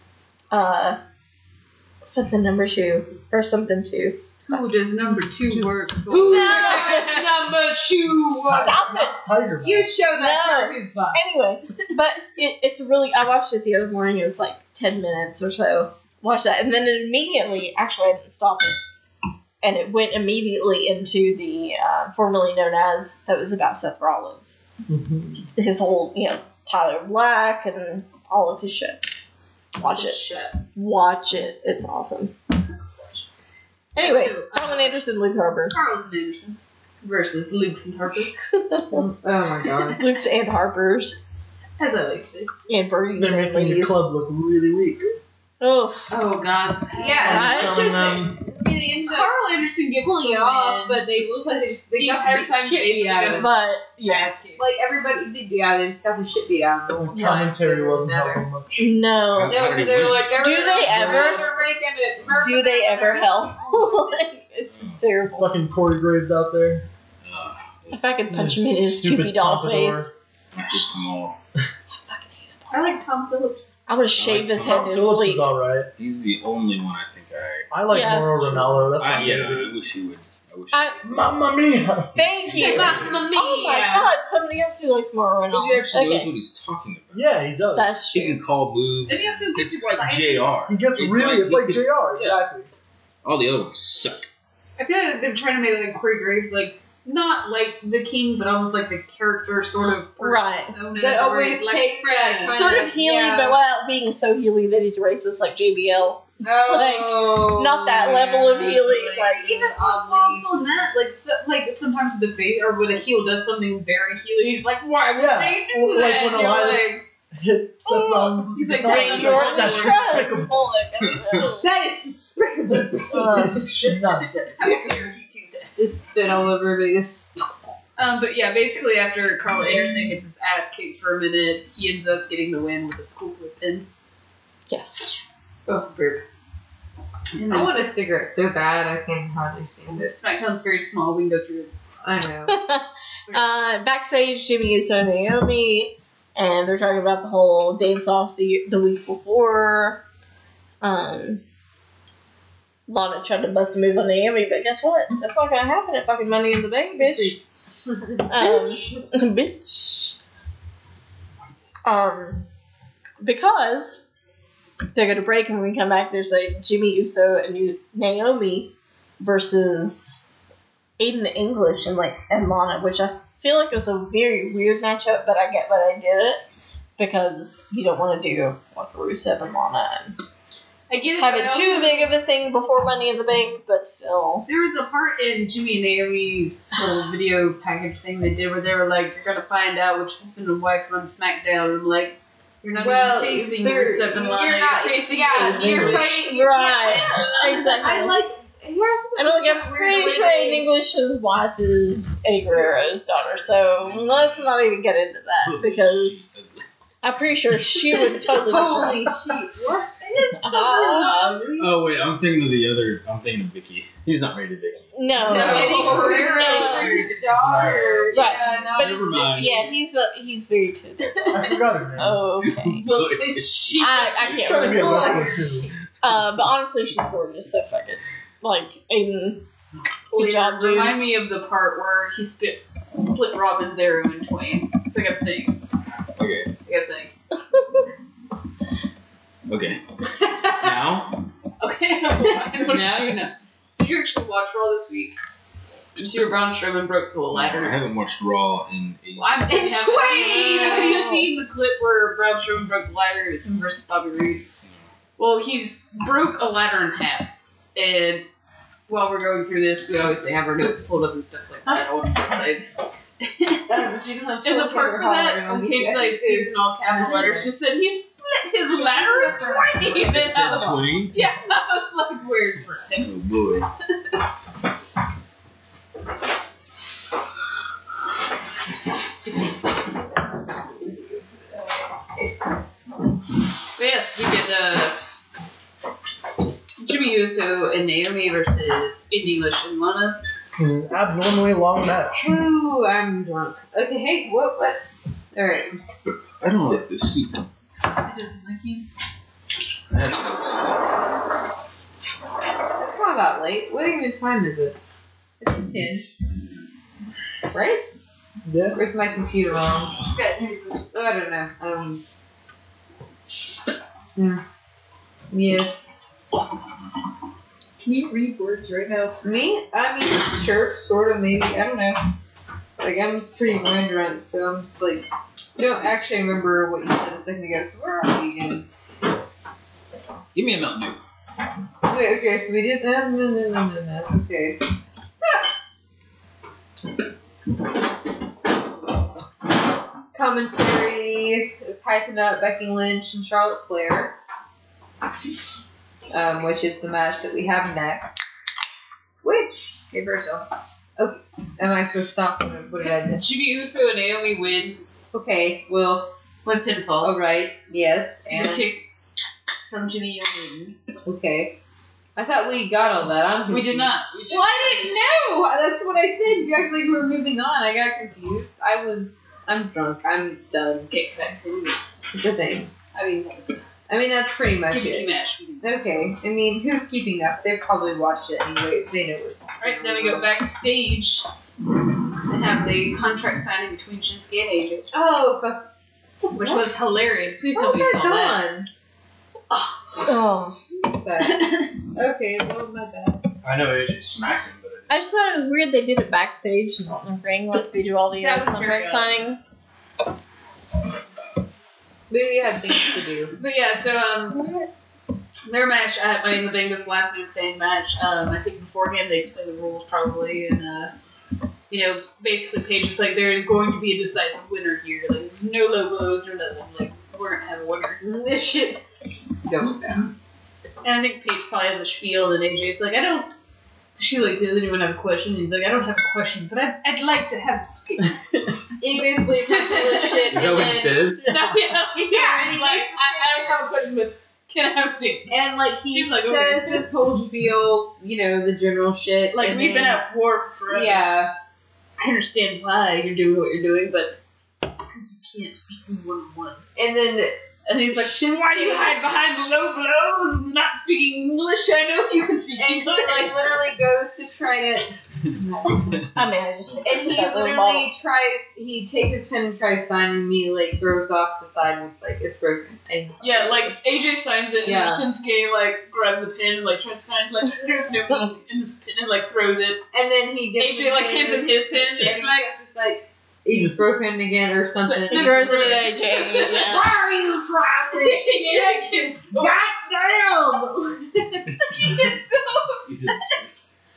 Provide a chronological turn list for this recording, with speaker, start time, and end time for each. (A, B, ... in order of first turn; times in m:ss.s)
0:00.5-0:01.0 A
0:02.0-0:04.2 A
0:04.5-0:07.4 B
0:06.1-0:08.9 C
0:06.3-0:07.1 A
0:08.0-0:10.0 D
0:08.6-0:09.2 A
0:09.6-0:11.2 C
0:10.1-0:18.8 A
0:19.6-0:24.6 A
0:24.9-0:25.5 D
0:25.6-0:29.0 A
0:29.8-0:30.2 A
0:29.8-0:30.6 B
0:30.7-0:32.3 A
0:33.9-0:35.8 A
0:34.0-0:35.0 B
0:35.7-0:38.3 B
0:38.5-0:39.0 A
0:38.9-0:40.0 C
0:40.0-0:41.2 A
0:41.8-0:42.5 B
0:42.7-0:44.0 A
0:43.2-0:45.1 D
0:45.6-0:46.1 A
0:46.1-0:48.0 B
0:46.9-0:49.3 C
0:47.2-0:48.4 D
0:47.3-0:48.0 A
0:49.1-0:51.1 B
0:50.0-0:53.5 C
0:52.0-0:54.7 B
0:53.4-0:54.3 A
0:54.6-0:58.4 C
0:56.9-0:58.9 D
0:58.8-1:01.5 A
0:59.3-1:00.5 E
0:59.5-1:03.7 C
1:00.9-1:01.4 B
1:02.4-1:05.6 A
1:03.0-1:04.3 B
1:04.7-1:05.2 E
1:05.3-1:06.8 D
1:07.2-1:08.0 E
1:07.9-1:10.1 A
1:08.3-1:10.1 D
1:10.5-1:11.4 E
1:11.9-1:12.9 A
1:12.7-1:13.8 B
1:13.9-1:15.5 A
1:14.2-1:15.1 E
1:14.6-1:15.9 D
1:16.0-1:17.7 E
1:17.7-1:19.8 D
1:17.9-1:18.8 A
1:19.0-1:23.2 E
1:20.7-1:21.0 A
1:21.0-1:23.1 D
1:22.1-1:26.3 A
1:22.6-1:24.1 C
1:25.5-1:27.4 E
1:27.1-1:28.0 D
1:27.7-1:28.4 A
1:28.1-1:32.4 E
1:29.0-1:30.6 B
1:30.7-1:32.7 D
1:33.2-1:34.2 E
1:34.8-1:42.9 B
1:40.2-1:40.8 A
1:41.0-1:43.6 C
1:42.5-1:49.5 A
1:46.4-1:50.5 C
1:49.3-1:57.0 B
1:55.1-2:00.7 D
1:57.9-2:01.7 A
1:58.5-2:00.3 B
2:01.0-2:01.5 E
2:01.6-2:03.8 C
2:03.1-2:03.6 A
2:03.5-2:04.3 D
2:03.6-2:05.2 B
2:04.6-2:07.3 C
2:08.0-2:13.8 B
2:14.7-2:15.2 A
2:15.7-2:16.2 B
2:17.4-2:17.9 B
2:17.5-2:20.1 C
2:20.0-2:21.7 B
2:22.0-2:22.6 C
2:22.5-2:30.0 A
2:30.8-2:31.4 A
2:32.9-2:37.4 A
2:37.0-2:39.0 C
2:38.3-2:40.2 A
2:41.8-2:42.4 A
2:43.2-2:44.0 A
2:44.9-2:50.2 A
2:51.0-2:56.4 A
2:57.0-3:00.2 A
3:00.9-3:02.1 B
3:01.2-3:04.5 A
3:04.4-3:16.3 B
3:12.8-3:20.7 C
3:15.4-3:18.2 A
3:16.8-3:17.7 B
3:19.2-3:26.2 A
3:22.6-3:23.2 B
3:23.8-3:24.5 E
3:25.4-3:26.6 E
3:27.0-3:29.2 A
3:28.3-3:29.9 C
3:30.0-3:31.9 B
3:30.4-3:31.4 A
3:30.5-3:31.0 C
3:31.6-3:34.9 E
3:34.9-3:37.0 A
3:35.2-3:39.6 C
3:35.2-3:37.2 B
3:37.3-3:39.7 E
3:37.4-3:37.9 D
3:38.1-3:42.8 A
3:41.1-3:41.6 B
3:41.3-3:42.3 D
3:42.4-3:44.5 E
3:42.8-3:45.1 B
3:43.8-3:45.3 A
3:44.2-3:45.7 D
3:44.7-3:45.7 C
3:46.0-3:49.4 A
3:50.1-3:51.0 A
3:50.1-3:55.6 B
3:56.2-3:56.5 E
3:56.6-3:57.1 B
3:59.5-4:01.2 E
4:00.2-4:00.7 C
4:01.6-4:05.2 B
4:02.5-4:03.2 C
4:06.0-4:07.8 B
4:07.3-4:09.7 E
4:09.2-4:14.4 B
4:09.5-4:11.2 C
4:10.1-4:11.3 A
4:15.2-4:18.3 B
4:18.9-4:23.9 B
4:23.7-4:27.5 C
4:24.4-4:33.1 B
4:28.7-4:30.9 C
4:30.0-4:31.2 E
4:33.0-4:33.7 E
4:39.2-4:39.9 C
4:40.8-4:41.2 C
4:43.8-4:45.0 B
4:46.8-4:50.2 B
4:50.6-4:52.3 D
4:52.2-4:55.8 C
4:56.4-4:57.5 E
4:58.0-4:58.9 B
4:59.9-5:00.9 E
5:02.8-5:04.8 C
5:05.4-5:06.1 C
5:07.5-5:07.8 C
5:08.4-5:08.8 D
5:08.7-5:10.0 C
5:10.1-5:10.8 B
5:10.9-5:12.0 C
5:14.2-5:14.4 C
5:15.3-5:15.8 C
5:17.8-5:19.2 B
5:19.2-5:22.0 C
5:22.8-5:28.7 C
5:30.3-5:31.0 E
5:31.8-5:34.6 C
5:40.1-5:44.2 C
5:46.1-5:48.2 C
5:49.2-5:50.4 C
5:51.0-5:53.3 C
5:52.8-5:54.8 B
5:55.1-5:56.1 C
5:56.4-5:57.2 B
5:57.0-5:58.7 C
5:58.2-5:58.8 B
5:59.7-6:00.8 B
6:01.0-6:01.6 C
6:02.2-6:10.9 C
6:03.5-6:05.0 B
6:10.9-6:11.8 B
6:12.1-6:12.7 C
6:12.9-6:13.6 B
6:13.9-6:15.1 C
6:14.7-6:15.8 B
6:15.6-6:20.4 C
6:19.6-6:21.2 B
6:22.3-6:24.9 B
6:24.9-6:25.7 C
6:26.2-6:26.7 C
6:26.3-6:28.4 B
6:27.5-6:28.7 C
6:29.5-6:30.0 B
6:30.0-6:30.6 A
6:30.7-6:33.2 C
6:31.2-6:31.7 B
6:33.4-6:35.0 E
6:34.9-6:39.5 A
6:38.2-6:39.2 B
6:42.1-6:43.4 C
6:43.4-6:44.4 B
6:44.3-6:44.7 A
6:45.5-6:50.9 B
6:51.7-6:58.0 B
6:58.0-7:00.1 C
7:00.8-7:03.3 B
7:04.0-7:08.2 B
7:08.8-7:10.9 C
7:09.4-7:15.3 B
7:10.3-7:11.3 E
7:11.2-7:11.6 D
7:12.1-7:13.6 C
7:15.3-7:20.0 C
7:15.9-7:16.9 B
7:19.3-7:21.1 B
7:20.7-7:21.3 C
7:22.0-7:26.6 B
7:26.8-7:27.4 C
7:27.7-7:33.7 B
7:27.9-7:29.0 C
7:32.6-7:36.1 C
7:36.1-7:37.9 A
7:36.8-7:43.9 C
7:43.2-7:49.8 B
7:44.6-7:45.0 C
7:49.9-8:01.5 C
7:50.6-7:52.4 B
7:53.5-7:53.9 D
7:54.9-7:56.9 B
7:55.1-7:56.9 A
7:57.9-7:59.7 B
8:01.5-8:02.1 E
8:01.7-8:03.3 B
8:02.8-8:03.6 E